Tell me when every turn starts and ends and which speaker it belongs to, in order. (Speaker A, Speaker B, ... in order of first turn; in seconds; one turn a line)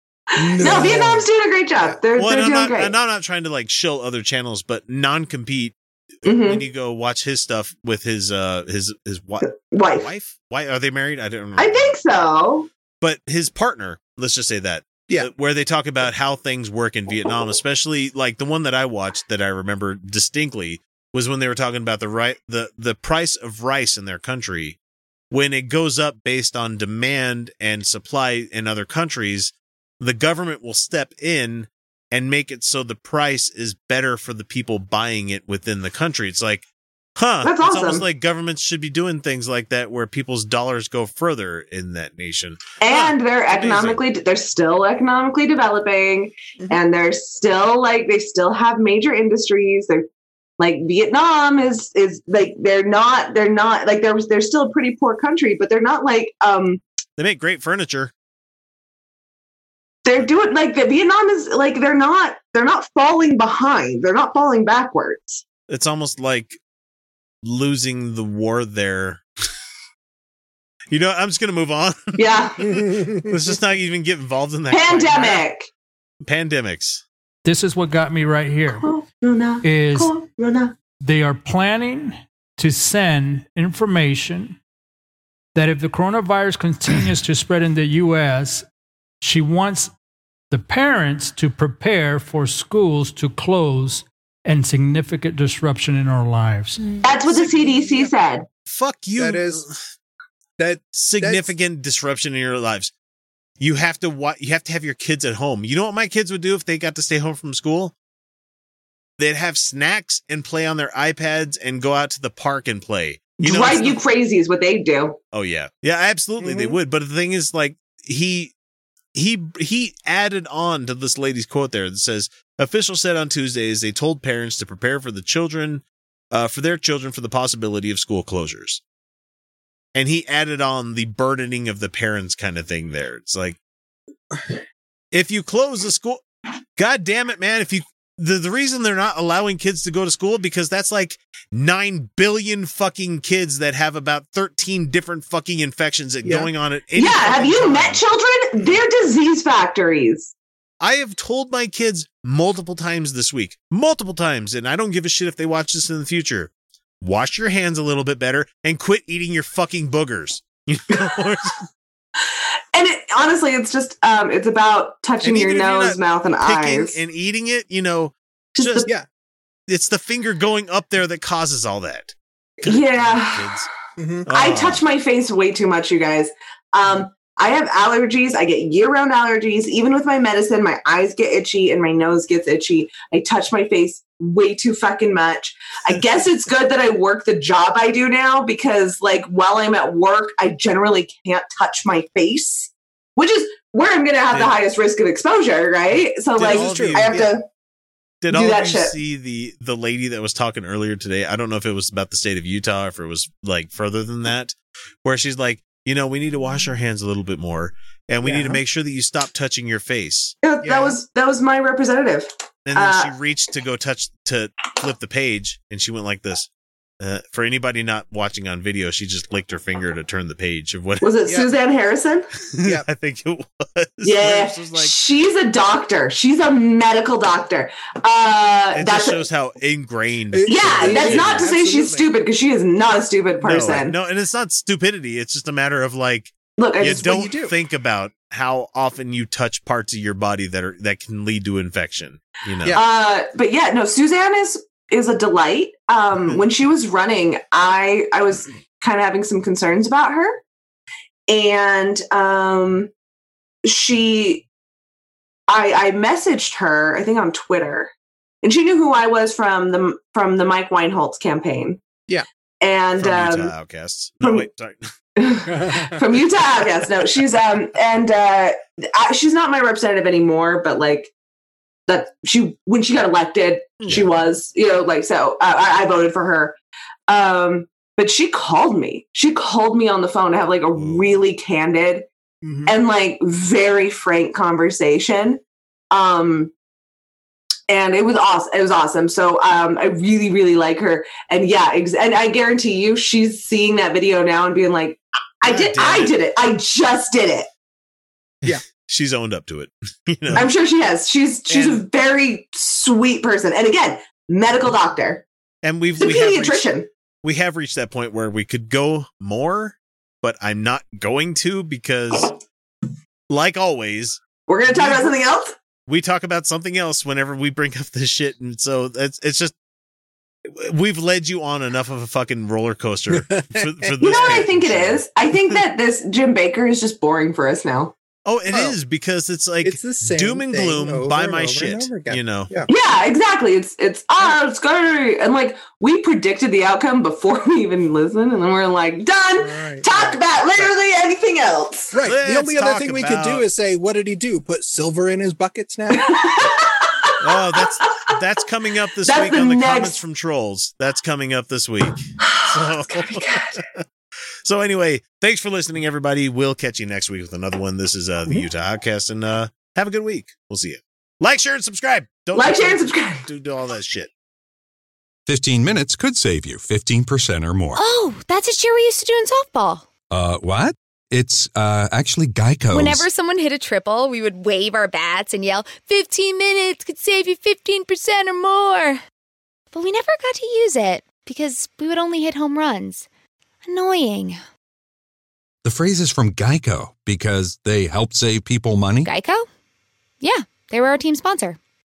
Speaker A: 0.4-1.3
Speaker B: 0.5-2.9
Speaker C: 2.2-11.9
Speaker B: 6.2-6.6
Speaker B: 9.4-10.1
Speaker B: 11.6-12.7
Speaker C: 13.0-24.8
Speaker C: 25.3-44.0
Speaker B: 37.4-38.0
Speaker B: 42.8-50.1
Speaker B: 50.6-56.8
Speaker C: 57.2-58.1
Speaker B: 60.0-65.4
Speaker C: 65.7-66.6
Speaker C: 67.4-69.2
Speaker C: 70.9-75.4
Speaker B: 72.2-72.8
Speaker A: 72.6-73.3
Speaker B: 74.7-75.7
Speaker C: 76.2-77.0
Speaker D: 77.5-78.9
Speaker B: 78.7-80.8
Speaker D: 79.6-80.1
Speaker D: 81.0-84.6
Speaker D: 85.5-88.7
Speaker D: 89.2-89.9
Speaker D: 90.5-97.0
Speaker B: 97.0-98.5
Speaker C: 97.3-97.8
Speaker A: 97.6-98.1
Speaker C: 98.7-99.8
Speaker A: 99.2-99.7
Speaker A: 100.6-101.5
Speaker C: 100.9-102.9
Speaker C: 103.6-107.9
Speaker C: 109.2-114.0
Speaker B: 113.4-115.2
Speaker C: 115.3-118.5
Speaker A: 116.4-116.8
Speaker C: 119.1-128.8
Speaker C: 129.9-133.6
Speaker C: 135.1-136.2
Speaker C: 136.8-148.0
Speaker A: 146.2-146.5
Speaker B: 147.0-150.3
Speaker C: 150.8-156.5
Speaker C: 157.0-161.7
Speaker B: 162.7-167.0
Speaker C: 165.2-168.9
Speaker B: 168.6-168.9
Speaker C: 169.7-173.7
Speaker B: 172.7-173.5
Speaker A: 174.0-174.3
Speaker C: 174.3-174.8
Speaker B: 174.3-197.5
Speaker C: 196.4-197.3
Speaker A: 196.4-197.3
Speaker C: 198.2-210.4
Speaker B: 198.3-198.9
Speaker A: 208.2-208.6
Speaker B: 210.4-213.1
Speaker A: 210.6-211.0
Speaker C: 212.7-216.5
Speaker C: 217.0-221.2
Speaker B: 221.0-222.3
Speaker C: 222.5-224.9
Speaker B: 224.0-229.2
Speaker C: 228.8-231.5
Speaker A: 230.3-232.1
Speaker B: 230.5-233.9
Speaker C: 233.4-242.8
Speaker B: 236.6-237.1
Speaker A: 236.8-237.5
Speaker B: 242.7-250.4
Speaker B: 251.3-252.9
Speaker B: 253.7-254.5
Speaker B: 255.5-257.9
Speaker B: 258.4-261.8
Speaker B: 262.6-263.5
Speaker C: 263.0-264.9
Speaker B: 265.2-271.1
Speaker A: 265.6-265.9
Speaker B: 271.9-276.6
Speaker C: 273.8-274.1
Speaker B: 277.1-282.1
Speaker C: 280.8-281.2
Speaker A: 282.4-282.7
Speaker B: 282.7-286.5
Speaker B: 287.7-297.5
Speaker C: 295.4-296.1
Speaker C: 298.4-300.5
Speaker B: 300.4-305.2
Speaker A: 301.5-301.9
Speaker C: 305.6-306.7
Speaker B: 306.0-306.9
Speaker C: 307.2-312.4
Speaker C: 313.3-315.1
Speaker B: 314.5-315.6
Speaker C: 315.9-319.6
Speaker C: 320.5-325.0
Speaker A: 323.1-324.5
Speaker B: 324.0-327.9
Speaker C: 328.3-332.5
Speaker A: 328.5-328.8
Speaker A: 329.6-332.7
Speaker B: 332.7-342.0
Speaker A: 339.4-340.7
Speaker A: 341.9-346.2
Speaker C: 342.0-343.4
Speaker B: 345.9-347.6
Speaker C: 347.2-353.8
Speaker B: 349.1-350.0
Speaker B: 352.2-353.5
Speaker C: 354.4-364.1
Speaker B: 362.4-363.3
Speaker E: 365.3-367.8
Speaker F: 367.8-369.9
Speaker E: 370.1-373.1
Speaker F: 372.7-379.0
Speaker F: 379.7-383.1
Speaker F: 383.6-384.4
Speaker E: 385.6-389.1
Speaker F: 389.1-389.5
Speaker F: 390.2-391.6